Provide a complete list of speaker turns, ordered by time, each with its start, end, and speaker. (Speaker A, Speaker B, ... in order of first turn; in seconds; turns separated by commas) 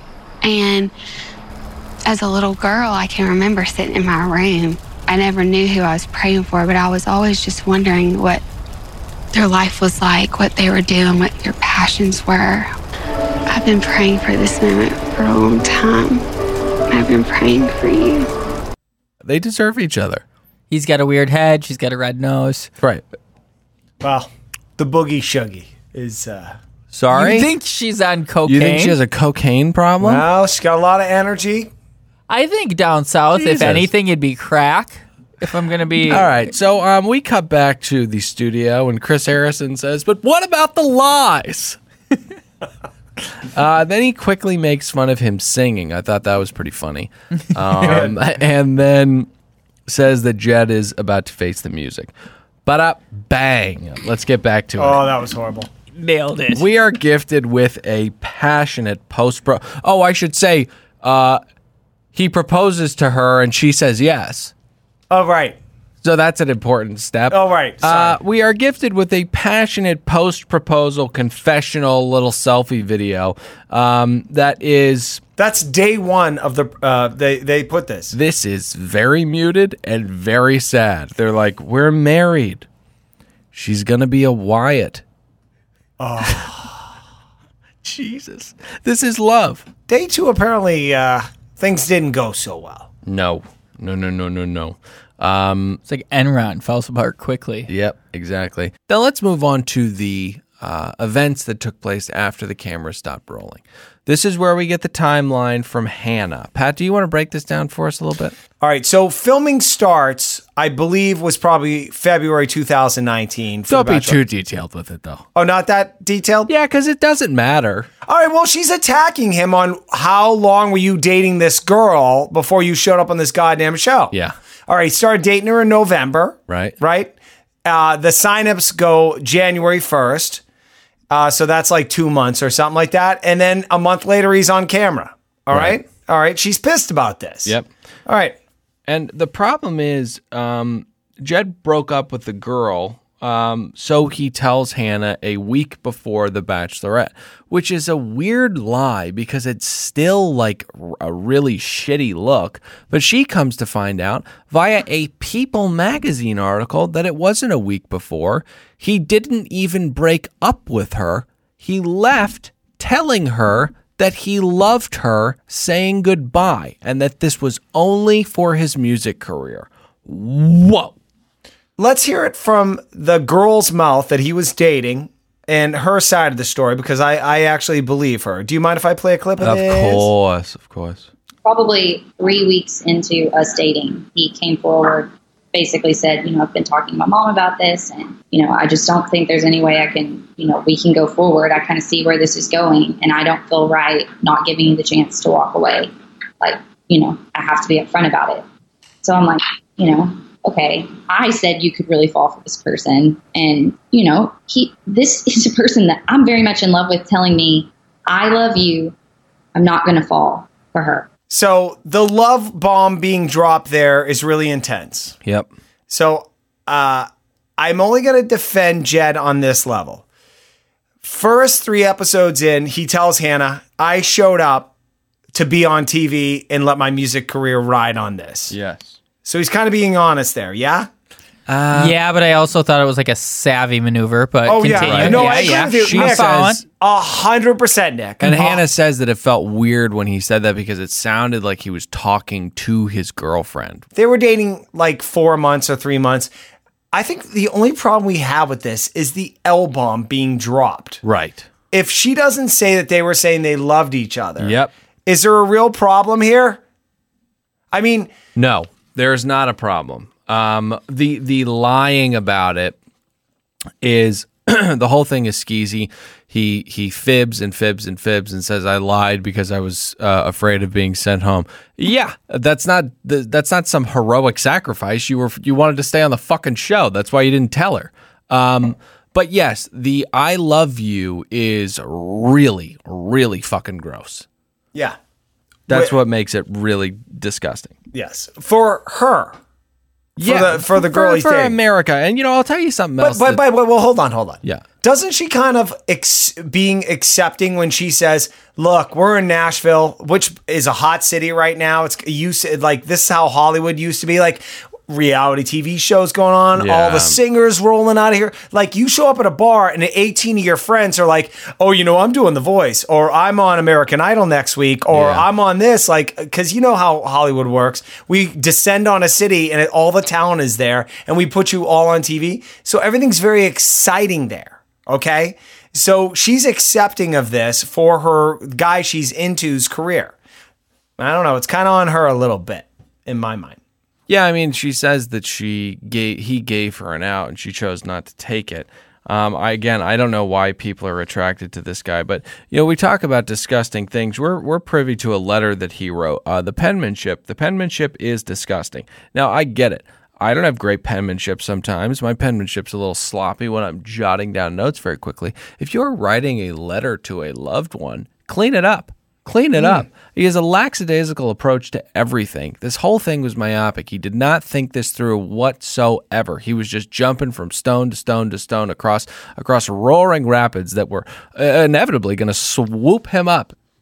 Speaker A: 0.4-0.9, Speaker A: 2.1-8.4, Speaker A: 9.3-12.7, Speaker A: 13.5-16.2, Speaker A: 16.9-18.3, Speaker B: 19.2-20.2, Speaker C: 20.7-22.7, Speaker D: 24.0-26.6, Speaker B: 26.9-27.5, Speaker C: 27.1-29.0, Speaker B: 28.5-30.2, Speaker D: 30.0-31.7, Speaker C: 32.3-36.3, Speaker B: 33.3-33.9, Speaker B: 36.1-41.8, Speaker B: 43.4-49.3, Speaker D: 47.8-48.1, Speaker B: 49.9-52.1, Speaker B: 52.6-55.0, Speaker D: 54.8-55.7, Speaker C: 56.0-56.6, Speaker B: 56.5-61.4, Speaker B: 62.1-64.5, Speaker D: 65.1-65.6, Speaker B: 66.0-75.2, Speaker D: 67.3-68.2, Speaker D: 75.4-78.2, Speaker B: 78.1-82.7, Speaker B: 83.5-85.0, Speaker D: 86.0-86.8, Speaker B: 87.8-89.7, Speaker D: 89.9-92.9, Speaker B: 93.0-95.8, Speaker C: 95.9-97.7, Speaker B: 97.7-108.4, Speaker D: 108.6-114.2, Speaker B: 113.7-115.3, Speaker D: 115.3-116.5, Speaker B: 116.5-117.9, Speaker D: 118.1-124.1, Speaker D: 124.7-127.1, Speaker B: 126.5-126.8, Speaker D: 127.7-130.4, Speaker D: 131.1-137.6, Speaker B: 135.5-135.8, Speaker D: 138.1-138.4, Speaker B: 138.9-170.9, Speaker D: 171.8-180.1, Speaker B: 179.4-181.1, Speaker E: 181.4-198.4, Speaker E: 199.0-208.9, Speaker E: 209.6-211.1, Speaker D: 211.3-215.2, Speaker B: 215.2-215.5, Speaker D: 215.9-220.0, Speaker D: 221.0-224.7, Speaker D: 225.3-228.6, Speaker B: 228.5-229.0, Speaker D: 229.2-230.9, Speaker B: 231.5-232.0, Speaker C: 231.8-236.6, Speaker D: 234.5-238.6, Speaker B: 234.7-236.6, Speaker B: 238.2-243.9, Speaker D: 244.0-246.3, Speaker D: 246.9-251.0, Speaker B: 251.0-251.5, Speaker D: 251.7-256.6, Speaker B: 254.4-254.7, Speaker D: 257.7-258.1, Speaker B: 258.4-262.8, Speaker B: 263.8-284.3, Speaker B: 285.7-287.7, Speaker D: 285.7-285.9, Speaker D: 287.9-289.4, Speaker B: 290.2-293.4, Speaker D: 290.2-291.6, Speaker D: 293.0-330.2, Speaker B: 306.5-307.2, Speaker B: 314.9-315.3, Speaker D: 331.0-333.6, Speaker B: 334.1-373.6